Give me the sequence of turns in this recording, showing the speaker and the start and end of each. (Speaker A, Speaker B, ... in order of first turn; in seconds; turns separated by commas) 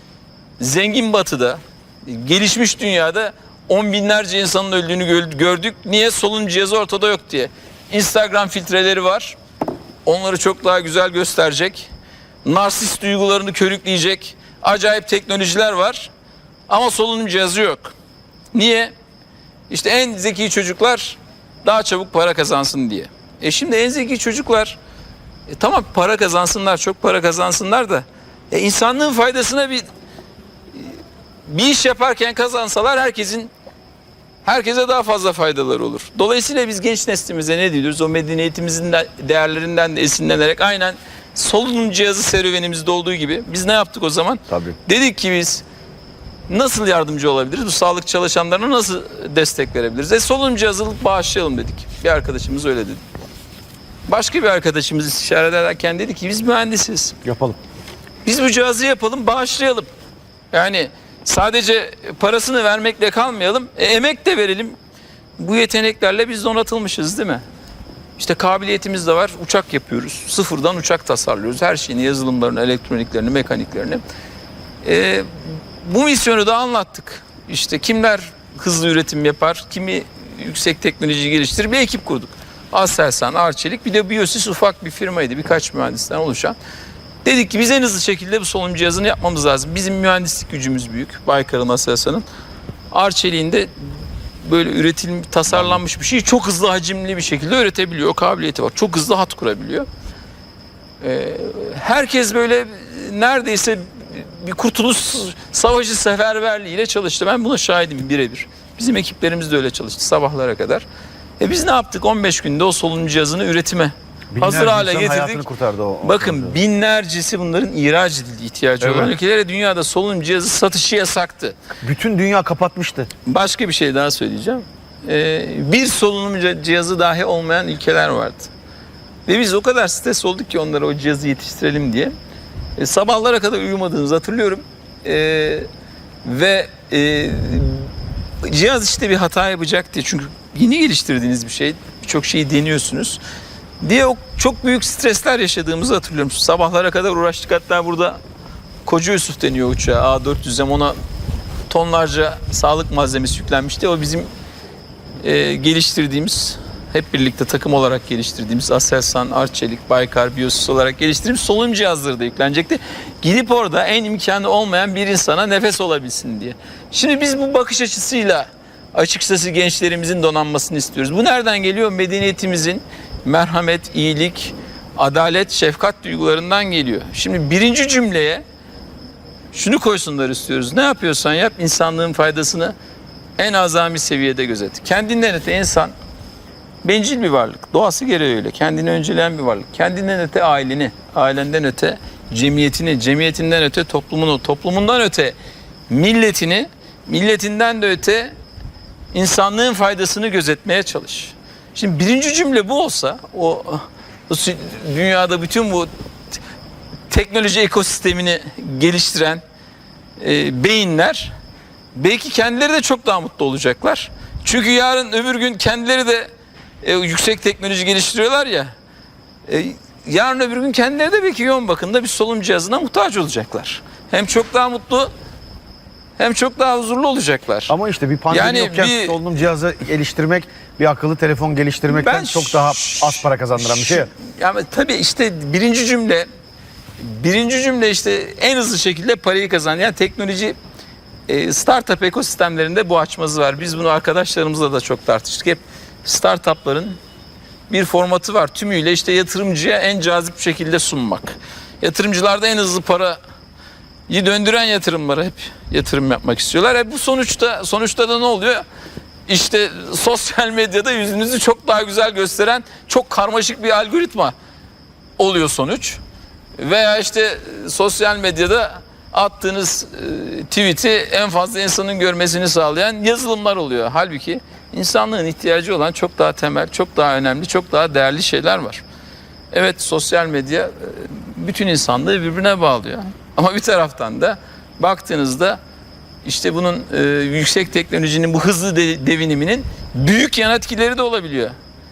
Speaker A: 0.6-9.4, Speaker A: 10.1-11.9, Speaker A: 12.4-16.1, Speaker A: 16.7-17.9, Speaker A: 18.5-18.9, Speaker A: 19.7-24.8, Speaker A: 25.5-29.9, Speaker A: 30.8-33.5, Speaker A: 34.5-45.6, Speaker B: 44.5-44.8, Speaker A: 46.5-53.0, Speaker A: 54.1-57.1, Speaker B: 57.2-57.6, Speaker A: 58.2-59.9, Speaker A: 60.5-64.8, Speaker A: 65.4-67.4, Speaker A: 68.2-74.0, Speaker A: 74.8-86.6, Speaker A: 87.2-92.2, Speaker A: 92.9-93.7, Speaker A: 94.4-99.9, Speaker A: 101.0-110.8, Speaker A: 111.4-115.5, Speaker B: 114.3-116.6, Speaker A: 116.0-121.6, Speaker B: 118.8-119.1, Speaker B: 121.8-123.1, Speaker A: 123.3-128.5, Speaker A: 129.3-132.1, Speaker A: 132.8-135.7, Speaker A: 136.2-137.9, Speaker A: 138.4-143.2, Speaker A: 143.8-148.2, Speaker A: 148.8-151.0, Speaker A: 151.7-154.3, Speaker A: 155.2-178.4, Speaker A: 179.5-182.8, Speaker A: 183.4-185.9, Speaker A: 186.8-195.4, Speaker A: 195.9-198.3, Speaker A: 199.1-205.9, Speaker A: 207.1-209.4, Speaker A: 210.2-211.3, Speaker A: 211.9-216.3, Speaker A: 216.8-218.7, Speaker A: 219.5-225.1, Speaker A: 226.2-227.7, Speaker B: 227.7-234.1, Speaker A: 228.3-229.2, Speaker A: 231.9-236.3, Speaker A: 237.0-240.6, Speaker A: 241.3-247.0, Speaker A: 247.7-253.2, Speaker A: 254.1-258.6, Speaker A: 259.3-264.4, Speaker A: 265.2-266.0, Speaker A: 266.6-278.8, Speaker A: 279.5-285.6, Speaker A: 286.2-291.6